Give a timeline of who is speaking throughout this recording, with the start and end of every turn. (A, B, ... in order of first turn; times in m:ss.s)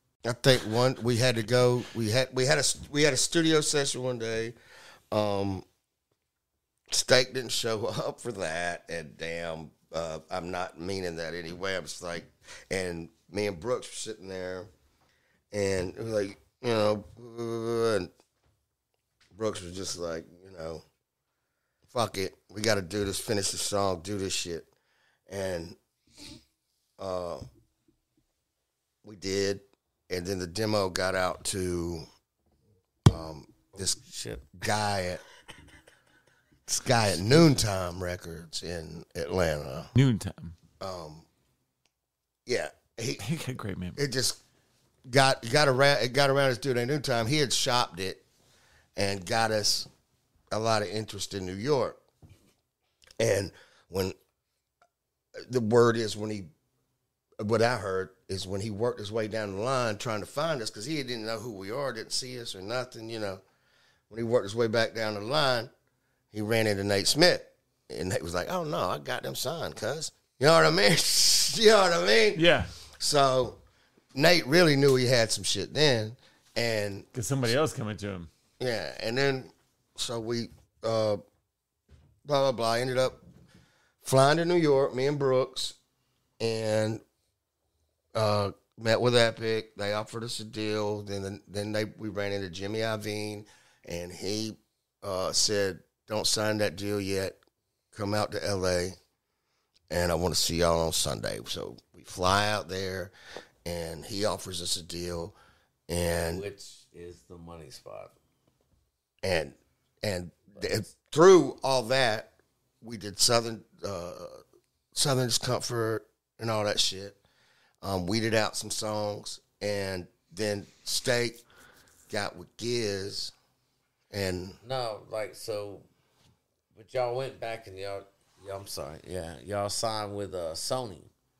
0:00.3-0:04.6 A
0:05.1-0:05.6 A
0:06.9-0:14.7 A
0:15.5-0:18.1 A
0:19.4-0:20.8 A
0:21.9-0:24.7 A
0:25.3-0:25.8 A
0:27.0-0:27.5 A
0:29.0-0:32.1 A
0:33.1-0:34.0 A
0:33.8-0:34.6 B
0:34.6-0:35.2 A
0:36.7-0:39.9 A
0:40.0-0:40.6 C
0:40.8-0:41.3 A
0:42.5-0:43.3 A
0:43.2-0:44.0 C
0:44.0-0:44.4 A
0:45.1-0:48.2 A
0:49.0-0:49.9 A
0:50.5-0:52.0 A
0:53.2-0:54.2 A
0:55.4-0:56.5 A
0:57.4-1:03.4 A
1:04.1-1:05.7 A
1:06.3-1:12.4 A
1:12.4-1:12.7 C
1:13.0-1:13.6 A
1:14.2-1:17.1 A
1:17.1-1:18.3 C
1:18.6-1:21.2 A
1:22.3-1:23.2 A
1:24.0-1:25.8 A
1:26.4-1:27.0 A
1:28.2-1:37.4 A
1:37.9-1:39.0 A
1:39.9-1:43.1 A
1:43.6-1:45.4 A
1:45.9-1:46.4 A
1:46.1-1:48.2 B
1:49.2-1:54.4 A
1:54.9-1:57.2 A
1:57.8-2:01.4 A
2:02.1-2:03.3 A
2:04.1-2:04.6 A
2:04.6-2:05.9 B
2:06.7-2:11.1 B